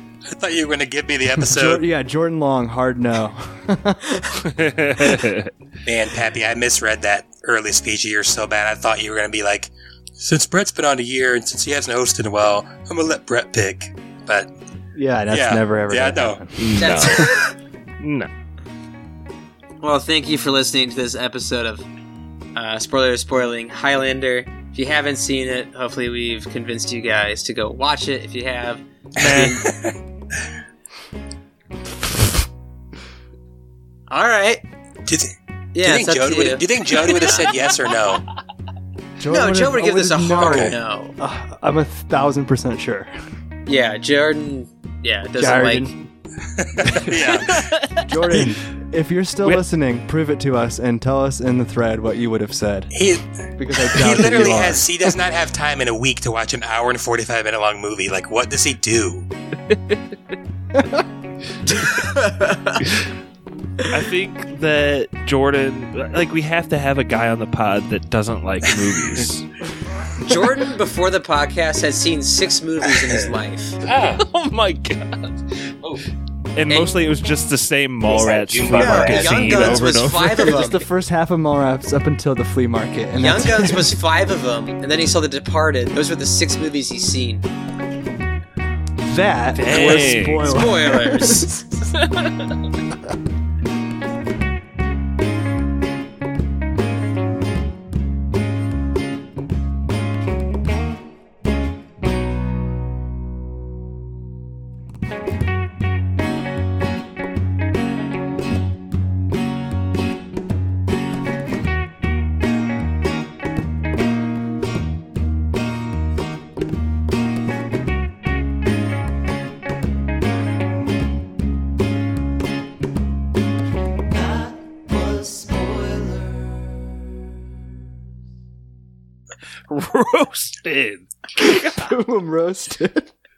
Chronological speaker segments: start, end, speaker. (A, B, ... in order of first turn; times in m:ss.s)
0:00.3-0:01.8 A
0:01.4-0:05.2 B
0:04.4-0:05.5 C
0:05.8-0:14.5 A
0:14.9-0:16.6 B
0:15.3-0:16.4 A
0:16.6-0:17.4 C
0:16.8-0:17.5 D
0:18.0-0:18.3 C
0:19.8-0:21.8 D
0:22.5-0:29.6 D
0:29.2-0:29.9 A
0:29.2-0:29.5 C
0:34.1-0:34.6 D
0:35.0-0:38.2 A
0:35.7-0:37.4 D
0:39.2-0:43.1 B
0:39.3-0:41.1 D
0:40.4-0:40.7 A
0:43.7-0:45.9 D
0:45.4-0:46.0 B
0:46.6-0:47.7 A
0:46.8-0:52.9 B
0:47.8-0:48.4 C
0:52.9-0:53.2 A
0:53.6-0:54.9 B
0:53.8-0:59.3 A
0:59.7-1:00.0 C
1:00.7-1:01.0 B
1:02.4-1:02.7 D
1:03.9-1:09.5 C
1:10.2-1:13.8 D
1:13.8-1:14.2 A
1:14.2-1:16.0 C
1:16.5-1:20.6 C
1:18.0-1:19.8 A
1:18.6-1:20.8 D
1:20.4-1:24.0 B
1:23.2-1:27.4 D
1:29.0-1:31.5 B
1:29.6-1:30.5 C
1:30.4-1:31.5 D
2:09.7-2:11.9 C
2:11.4-2:13.1 B